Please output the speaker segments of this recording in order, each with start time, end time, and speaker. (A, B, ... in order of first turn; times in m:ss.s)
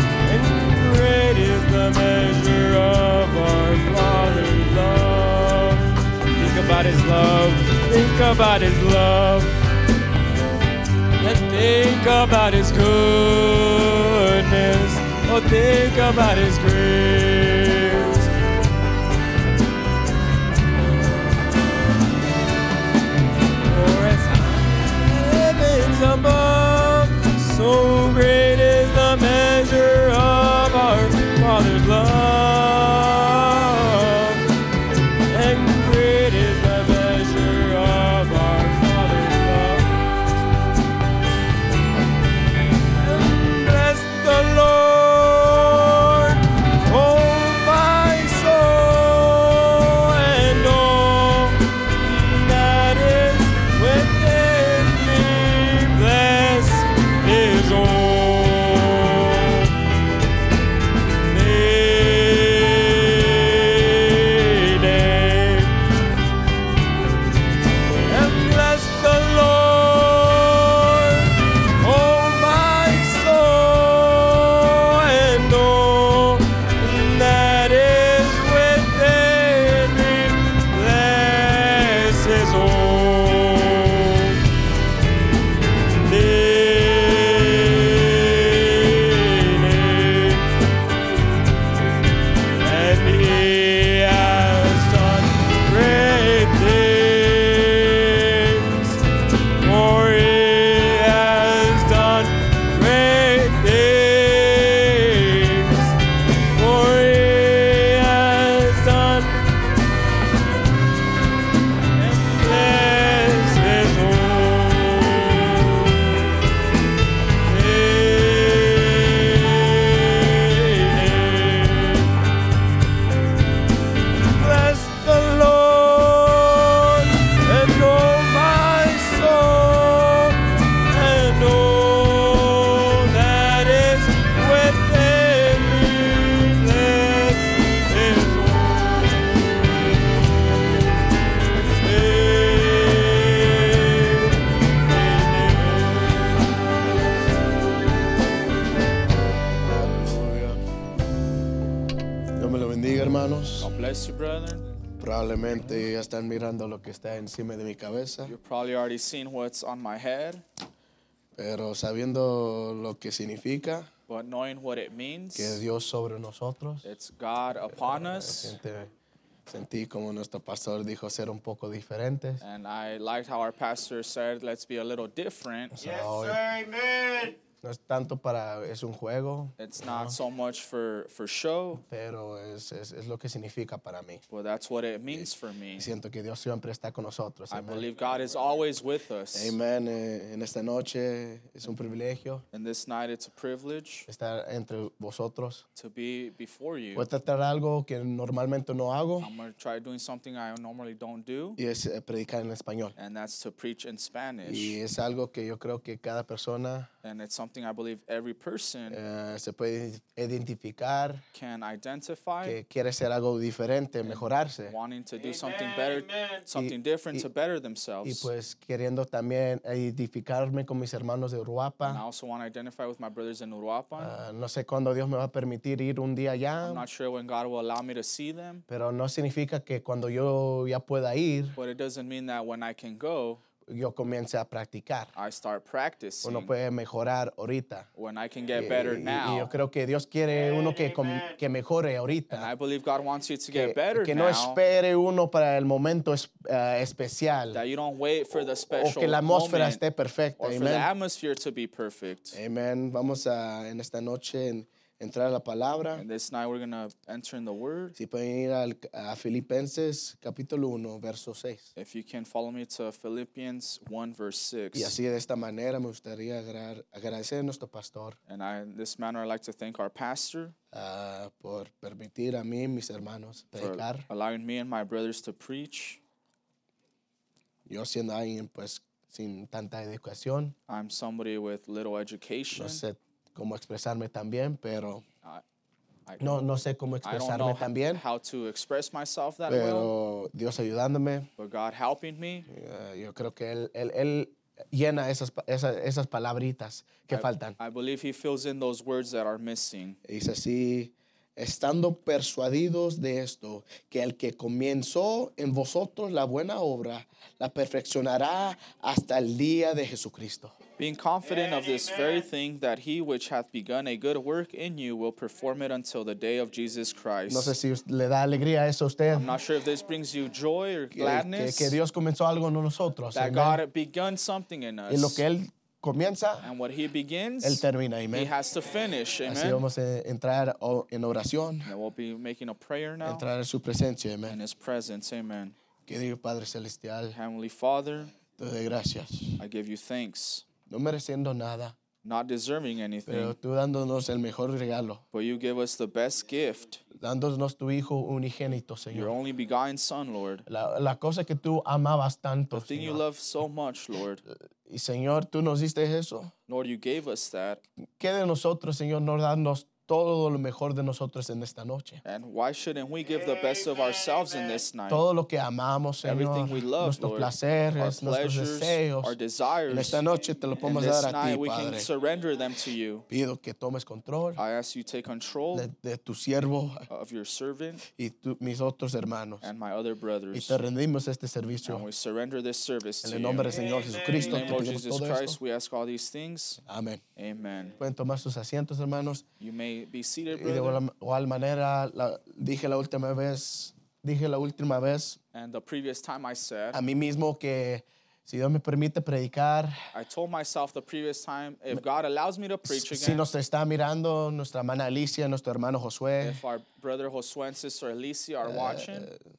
0:00.2-0:09.5 A
0:11.2-0:18.3 A
0:23.7-0:34.4 A
0:35.3-0:39.9 A
0:43.0-0:59.7 A
1:01.2-1:05.7 A
1:08.1-1:24.4 A
1:26.0-1:30.4 A
1:32.6-1:39.0 A
1:39.6-1:45.9 A
1:46.6-1:49.4 A
1:52.0-1:56.2 A
1:57.4-2:02.1 A
2:04.3-2:20.2 A
2:21.8-2:26.3 A
2:29.5-2:30.6 B
2:32.4-2:33.7 B
2:33.6-2:34.6 C
2:35.0-2:38.4 B
2:38.2-2:40.4 C
2:41.4-2:43.9 B
2:44.1-2:45.6 C
2:45.4-2:46.9 B
2:46.8-2:48.6 C
2:47.8-2:48.9 B
2:49.5-2:52.4 B
2:52.4-2:56.0 C
2:55.8-3:00.2 B
2:59.6-3:01.8 C
3:01.9-3:04.2 B
3:04.3-3:05.9 C
3:05.1-3:07.9 B
3:07.5-3:09.6 C
3:09.3-3:12.4 B
3:12.5-3:14.1 C
3:14.1-3:15.6 B
3:15.8-3:17.1 C
3:17.0-3:19.3 B
3:19.2-3:21.6 C
3:21.6-3:22.9 B
3:23.0-3:24.8 C
3:24.4-3:26.9 B
3:27.0-3:29.0 C
3:28.9-3:31.2 B
3:31.3-3:32.6 C
3:32.4-3:34.8 B
3:34.0-3:38.3 C
3:36.5-3:37.3 B
3:38.0-3:42.0 B
3:41.8-3:44.1 C
3:44.0-3:46.8 B
3:46.6-3:48.6 C
3:48.7-3:51.6 B
3:51.6-3:53.4 C
3:53.7-3:55.1 B
3:55.2-3:56.5 C
3:56.2-3:57.9 B
3:58.0-3:59.5 C
3:58.6-4:02.5 B
4:02.3-4:04.6 C
4:03.5-4:07.6 B
4:07.5-4:09.8 C
4:08.3-4:10.9 B
4:10.4-4:12.4 C
4:12.3-4:16.0 B
4:15.9-4:18.0 C
4:18.0-4:21.7 B
4:21.8-4:25.0 C
4:24.7-4:28.2 B
4:28.3-4:30.6 C
4:30.7-4:34.1 B
4:33.6-4:36.0 C
4:37.7-4:40.6 B
4:40.7-4:42.8 C
4:42.5-4:45.0 B
4:46.1-4:46.5 C
4:46.2-4:48.0 B
4:47.0-4:49.9 C
4:49.5-4:51.3 B
4:51.4-4:52.5 C
4:52.5-4:57.6 B
4:57.1-5:00.0 C
5:00.0-5:10.5 B
5:10.8-5:17.6 C
5:17.3-5:19.3 B
5:19.1-5:21.8 C
5:20.9-5:23.6 B
5:23.1-5:25.2 C
5:24.9-5:26.5 B
5:26.4-5:29.6 C
5:27.4-5:28.3 B
5:29.3-5:31.7 B
5:31.7-5:33.2 C
5:33.0-5:34.4 B
5:34.3-5:35.6 C
5:35.9-5:37.2 B
5:37.1-5:38.1 C
5:38.4-5:39.4 B
5:39.4-5:40.5 C
5:40.7-5:41.8 B
5:42.0-5:43.4 C
5:43.1-5:45.0 B
5:45.1-5:46.8 C
5:47.0-5:49.2 B
5:48.9-5:50.4 C
5:50.5-5:53.0 B
5:52.5-5:54.2 C
5:54.7-5:56.3 B
5:56.5-5:57.6 C
5:58.0-6:02.0 B
6:02.0-6:05.0 C
6:04.9-6:09.2 B
6:06.0-6:10.0 C
6:09.7-6:11.9 B
6:10.6-6:13.1 C
6:13.1-6:14.4 B
6:14.4-6:15.7 C
6:15.5-6:16.9 B
6:16.9-6:17.8 C
6:17.9-6:19.5 B
6:19.4-6:20.6 C
6:20.3-6:21.9 B
6:21.6-6:26.6 C
6:23.0-6:25.4 B
6:26.7-6:27.0 B
6:27.2-6:27.8 C
6:27.8-6:29.2 B
6:29.4-6:30.8 C
6:30.3-6:35.2 B
6:35.3-6:36.8 C
6:36.7-6:39.8 B
6:39.9-6:43.2 C
6:42.6-6:46.4 B
6:46.2-6:49.1 C
6:48.4-6:49.2 B